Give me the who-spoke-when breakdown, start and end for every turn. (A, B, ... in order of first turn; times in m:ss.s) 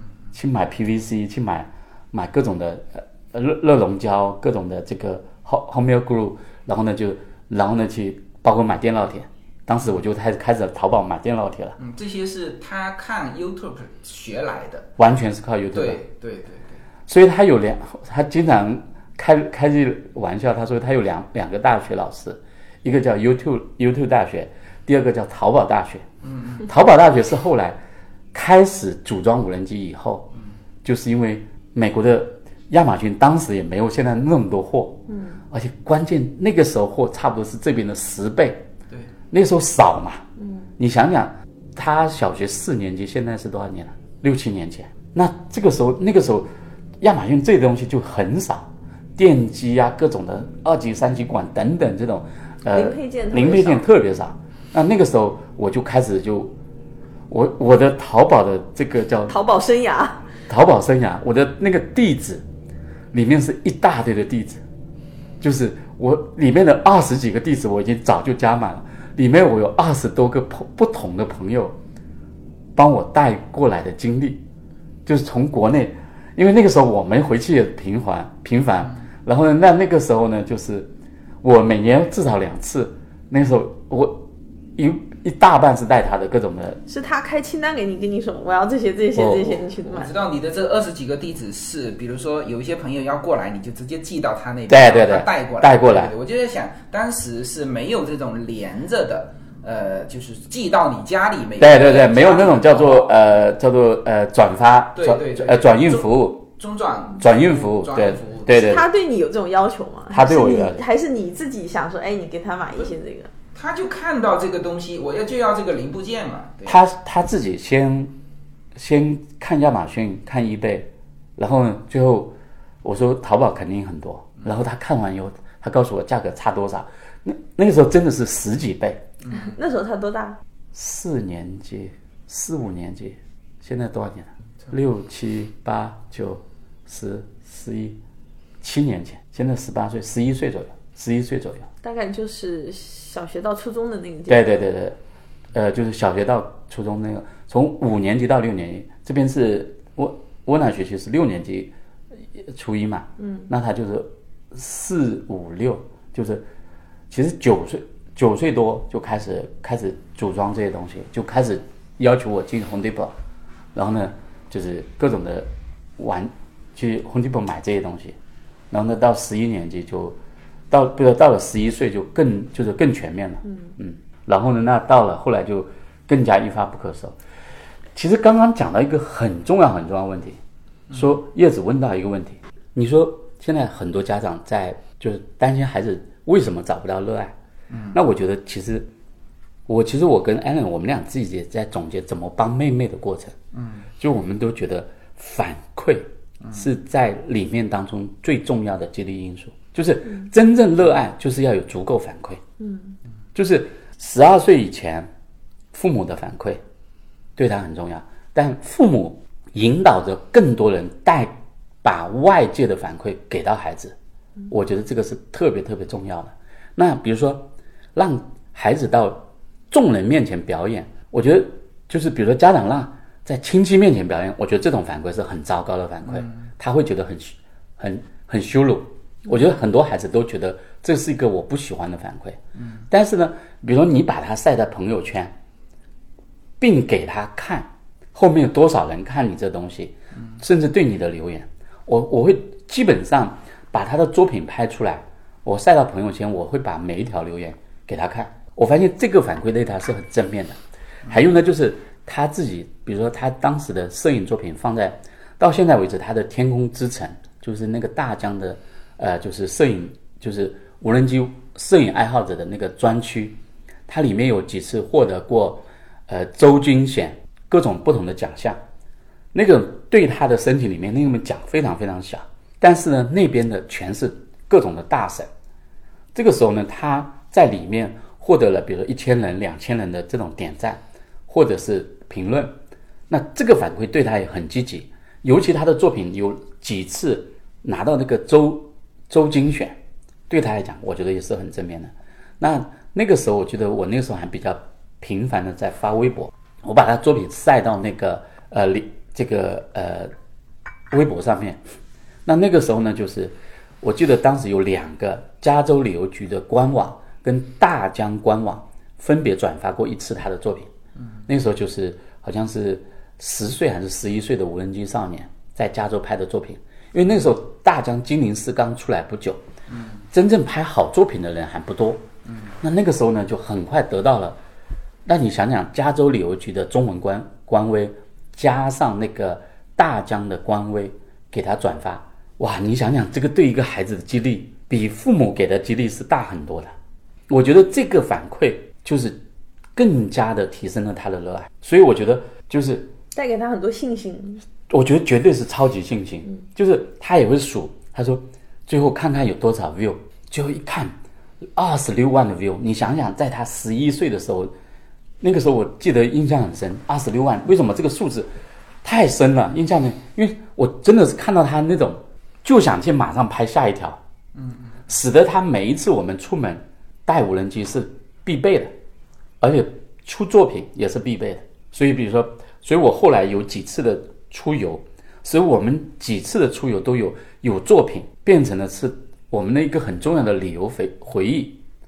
0:00.3-0:11.8 A
0:11.8-0:14.9 B
0:15.0-0:16.0 A
0:15.7-0:16.8 B
0:17.1-0:26.0 A
0:26.2-0:26.6 B
0:26.6-0:27.8 A
0:28.3-0:30.3 A
0:30.8-0:35.0 A
0:35.1-0:35.4 C
0:35.5-0:38.6 A
0:39.3-0:40.2 A
0:40.4-0:40.7 C
0:40.8-0:46.5 A
0:47.0-0:56.5 A
0:52.7-0:53.8 C
0:57.3-0:59.4 A
0:59.3-1:00.2 C
1:00.5-1:02.4 A
1:03.1-1:04.6 A
1:05.4-1:11.8 A
1:12.8-1:14.4 A
1:15.0-1:20.9 A
1:21.4-1:24.2 A
1:24.8-1:26.8 A
1:26.9-1:30.1 C
1:29.1-1:29.6 A
1:29.8-1:43.1 B
1:34.7-1:36.1 A
1:41.6-1:46.4 A
1:44.9-1:48.7 B
1:47.2-1:48.8 A
1:48.6-1:53.3 C
1:50.1-1:50.8 A
1:53.5-1:56.8 B
1:56.6-1:58.1 A
1:58.7-2:09.0 A
2:09.3-2:10.4 C
2:10.7-2:18.0 A
2:18.6-2:21.7 A
2:21.8-2:24.5 C
2:24.3-2:25.0 A
2:25.5-2:31.7 A
2:32.3-2:36.4 A
2:33.2-2:33.5 C
2:37.1-2:43.1 A
2:43.7-2:48.2 A
2:48.7-2:50.2 A
2:50.7-2:57.2 A
2:57.9-3:00.4 A
3:00.9-3:01.2 B
3:00.9-3:07.3 A
3:07.7-3:08.0 B
3:07.9-3:08.9 A
3:09.7-3:13.4 A
3:13.5-3:13.9 B
3:14.0-3:22.4 A
3:22.6-3:22.9 C
3:23.3-3:25.1 A
3:25.7-3:26.6 A
3:27.4-3:33.9 A
3:34.5-3:52.4 A
3:46.0-3:46.4 B
3:52.6-3:52.8 B
3:52.9-3:55.3 A
3:56.6-4:28.6 A
4:29.3-4:35.3 A
4:36.1-4:42.5 A
4:43.1-4:49.8 A
4:50.3-5:00.1 A
5:00.9-5:01.6 A
5:02.2-5:10.7 A
5:11.3-5:19.4 A
5:19.7-5:20.0 B
5:20.1-5:22.0 A
5:22.2-5:22.5 B
5:22.6-5:24.4 A
5:25.0-5:36.7 A
5:37.3-5:39.2 A
5:39.7-5:42.9 A
5:43.1-5:44.4 C
5:44.7-5:50.9 A
5:51.6-5:54.5 A
5:55.2-5:58.3 A
5:58.8-6:04.0 A
6:04.3-6:04.8 B
6:04.9-6:08.7 A
6:09.4-6:21.6 A